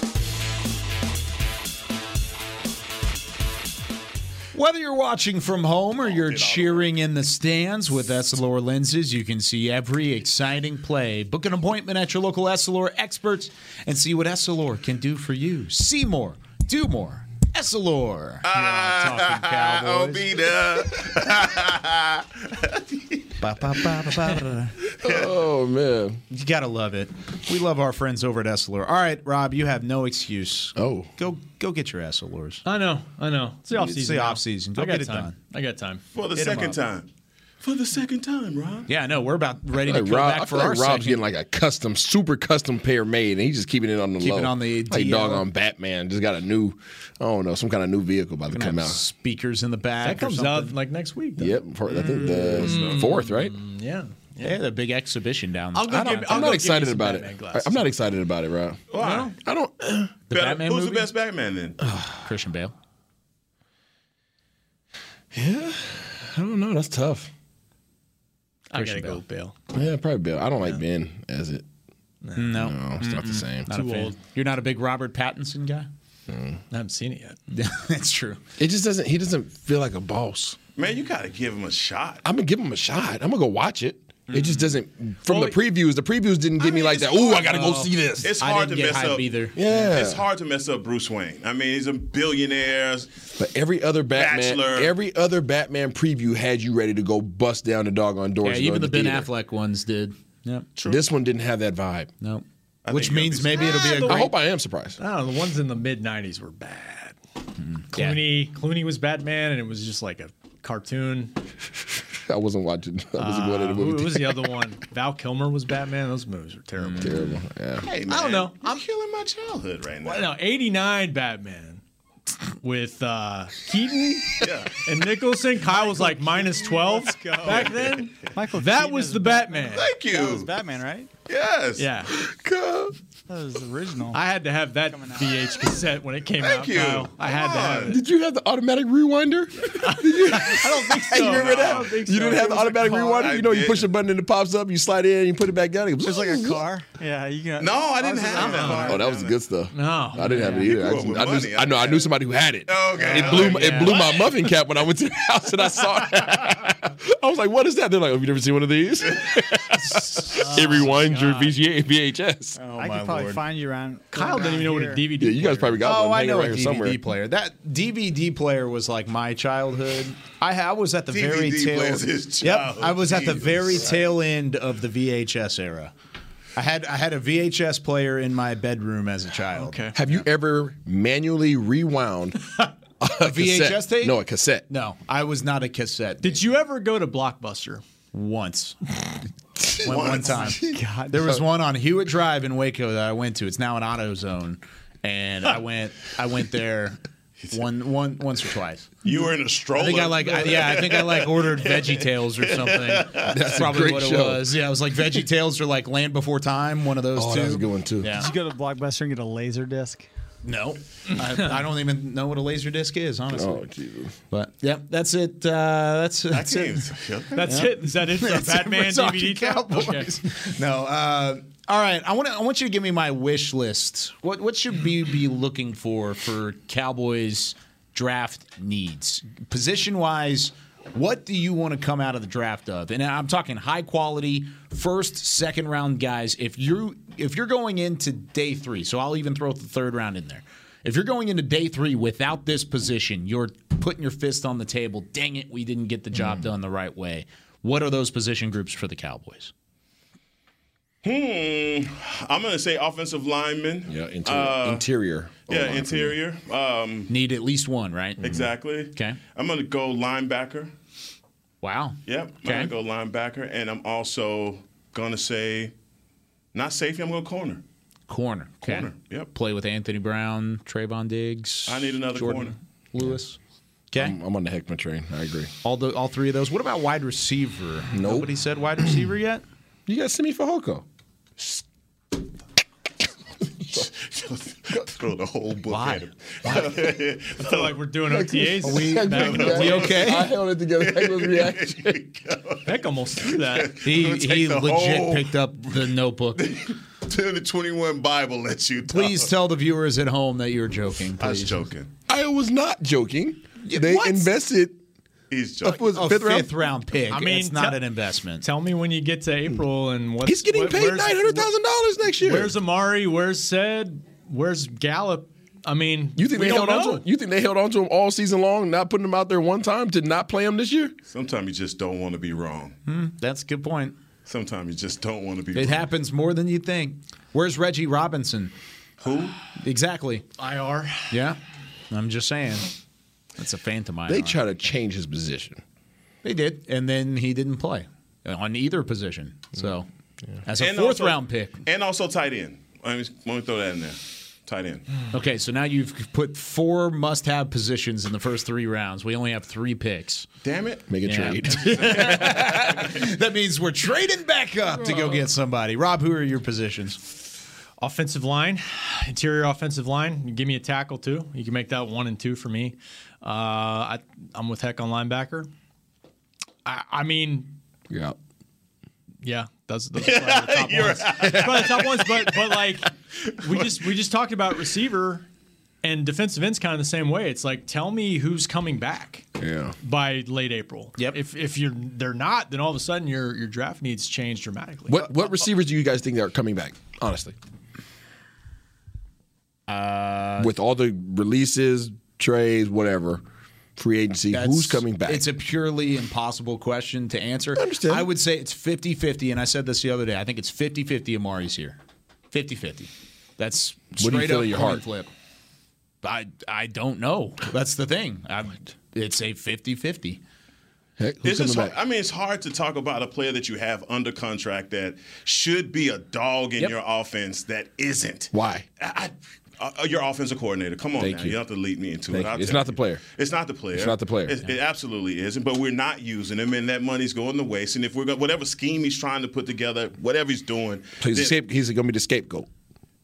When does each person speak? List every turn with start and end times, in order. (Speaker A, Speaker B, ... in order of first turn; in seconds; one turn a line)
Speaker A: 4.5-20.3
Speaker B: 6.1-6.9
Speaker B: 18.4-23.2
Speaker A: 23.4-24.8
Speaker C: 25.0-26.2
Speaker B: 25.0-25.3
Speaker A: 26.3-32.6
Speaker C: 30.8-31.1
Speaker D: 32.6-36.8
Speaker A: 33.7-35.3
Speaker B: 36.1-37.1
Speaker B: 37.6-38.9
Speaker A: 38.9-41.2
Speaker C: 39.8-49.0
Speaker A: 44.2-45.5
Speaker A: 48.5-50.8
Speaker D: 50.0-54.6
Speaker C: 51.4-53.5
Speaker A: 51.9-52.7
Speaker A: 54.4-56.6
Speaker D: 55.7-57.9
Speaker C: 55.9-58.9
Speaker B: 58.9-59.3
Speaker D: 59.0-59.4
Speaker C: 59.4-60.1
Speaker A: 60.3-61.1
Speaker B: 60.3-61.8
Speaker C: 61.8-62.2
Speaker A: 62.2-62.7
Speaker C: 65.3-67.3
Speaker D: 68.7-69.5
Speaker A: 68.7-69.2
Speaker C: 69.7-71.6
Speaker D: 72.2-72.6
Speaker A: 72.3-75.9
Speaker C: 72.5-73.7
Speaker D: 73.7-74.2
Speaker C: 76.3-76.6
Speaker D: 76.7-77.4
Speaker A: 77.5-78.4
Speaker C: 78.6-80.6
Speaker B: 80.8-82.2
Speaker C: 82.2-88.3
Speaker D: 85.3-85.5
Speaker B: 86.6-87.6
Speaker B: 88.2-93.2
Speaker A: 88.4-89.5
Speaker C: 89.5-90.2
Speaker C: 93.4-99.3
Speaker B: 94.1-94.9
Speaker A: 98.4-100.7
Speaker C: 100.8-102.1
Speaker A: 102.2-104.3
Speaker B: 102.8-104.0
Speaker D: 103.5-104.3
Speaker C: 104.0-105.0
Speaker D: 105.0-107.2
Speaker A: 107.8-108.3
Speaker D: 107.9-111.3
Speaker C: 112.2-114.4
Speaker D: 113.2-117.3
Speaker A: 116.8-117.3
Speaker C: 117.0-117.8
Speaker B: 117.9-120.3
Speaker D: 117.9-118.8
Speaker D: 120.0-121.8
Speaker D: 122.6-129.9
Speaker B: 124.4-124.8
Speaker E: 125.7-131.1
Speaker B: 127.4-128.0
Speaker B: 129.7-130.5
Speaker B: 131.3-131.9
Speaker D: 131.8-132.2
Speaker C: 132.2-132.9
Speaker E: 133.3-134.2
Speaker D: 134.1-138.0
Speaker E: 134.9-135.7
Speaker B: 136.4-138.0
Speaker C: 137.9-146.6
Speaker D: 139.8-143.2
Speaker B: 141.1-142.0
Speaker B: 143.1-143.9
Speaker E: 146.0-149.0
Speaker B: 147.6-149.3
Speaker D: 148.3-148.9
Speaker C: 148.8-162.6
Speaker D: 149.7-150.7
Speaker B: 150.6-152.1
Speaker B: 152.7-154.3
Speaker D: 153.2-153.9
Speaker D: 160.1-161.5
Speaker E: 162.6-165.1
Speaker A: 162.8-163.4
Speaker D: 164.1-165.8
Speaker C: 165.2-167.0
Speaker A: 165.8-175.9
Speaker B: 171.1-174.1
Speaker A: 176.6-179.8
Speaker D: 179.5-180.2
Speaker C: 179.9-184.7
Speaker A: 183.2-184.2
Speaker A: 184.7-186.4
Speaker D: 186.2-187.8
Speaker A: 188.1-188.8
Speaker A: 189.8-197.0
Speaker B: 189.8-190.6
Speaker E: 190.5-191.4
Speaker A: 197.5-198.9
Speaker B: 199.0-203.4
Speaker A: 199.7-208.3
Speaker C: 203.2-204.5
Speaker C: 207.1-208.2
Speaker E: 208.1-210.1
Speaker A: 210.4-213.6
Speaker C: 213.3-214.1
Speaker A: 214.3-216.9
Speaker B: 216.3-217.5
Speaker D: 217.3-220.1
Speaker A: 217.4-249.5
Speaker C: 246.1-246.5
Speaker B: 251.0-254.8
Speaker C: 253.9-256.1
Speaker B: 255.5-257.1
Speaker A: 257.1-259.2
Speaker B: 258.2-260.7
Speaker A: 261.6-262.7
Speaker B: 262.1-265.7
Speaker B: 266.5-267.6
Speaker A: 268.1-273.4
Speaker B: 268.6-269.3
Speaker B: 271.7-272.5
Speaker C: 273.9-275.5
Speaker A: 275.6-279.4
Speaker C: 277.9-278.9
Speaker C: 279.9-280.8
Speaker B: 283.7-287.8
Speaker A: 285.7-286.1
Speaker D: 287.4-289.9
Speaker C: 288.1-292.0
Speaker A: 288.6-290.3
Speaker B: 289.4-290.2
Speaker B: 290.7-295.5
Speaker D: 292.6-293.8
Speaker A: 293.8-296.6
Speaker B: 296.4-299.3
Speaker A: 298.9-301.6
Speaker B: 301.2-301.9
Speaker C: 302.1-304.8
Speaker A: 303.6-304.3
Speaker B: 305.3-305.9
Speaker C: 305.6-306.5
Speaker A: 305.7-308.4
Speaker D: 307.1-311.5
Speaker C: 310.2-312.5
Speaker D: 312.1-317.0
Speaker C: 316.1-320.9
Speaker B: 321.1-322.8
Speaker A: 322.9-323.9
Speaker B: 324.2-325.9
Speaker A: 325.5-328.5
Speaker B: 329.0-329.3
Speaker A: 329.6-330.2
Speaker D: 330.4-331.1
Speaker A: 331.1-331.4
Speaker A: 331.9-332.7
Speaker A: 333.4-334.4
Speaker C: 334.1-335.6
Speaker A: 336.2-339.9
Speaker A: 340.4-341.6
Speaker B: 340.6-344.8
Speaker A: 345.1-350.3
Speaker B: 350.4-350.9
Speaker C: 350.9-351.9
Speaker A: 351.0-357.0
Speaker B: 351.6-353.1
Speaker D: 357.8-365.5
Speaker D: 366.6-367.5
Speaker C: 367.9-368.2
Speaker D: 369.2-375.2
Speaker B: 370.0-372.4
Speaker B: 373.5-373.7
Speaker D: 375.8-379.2
Speaker C: 379.4-379.8
Speaker D: 379.8-385.0
Speaker C: 384.9-387.4
Speaker A: 389.7-390.5
Speaker C: 390.4-393.2
Speaker C: 393.8-395.3
Speaker A: 394.3-401.8
Speaker C: 397.5-398.1
Speaker A: 402.3-405.1
Speaker C: 403.9-404.8
Speaker A: 406.0-410.2
Speaker C: 411.0-411.7
Speaker B: 411.2-431.3
Speaker C: 418.3-418.6
Speaker C: 421.0-421.4
Speaker C: 422.1-423.0
Speaker C: 423.7-424.4
Speaker C: 431.0-432.5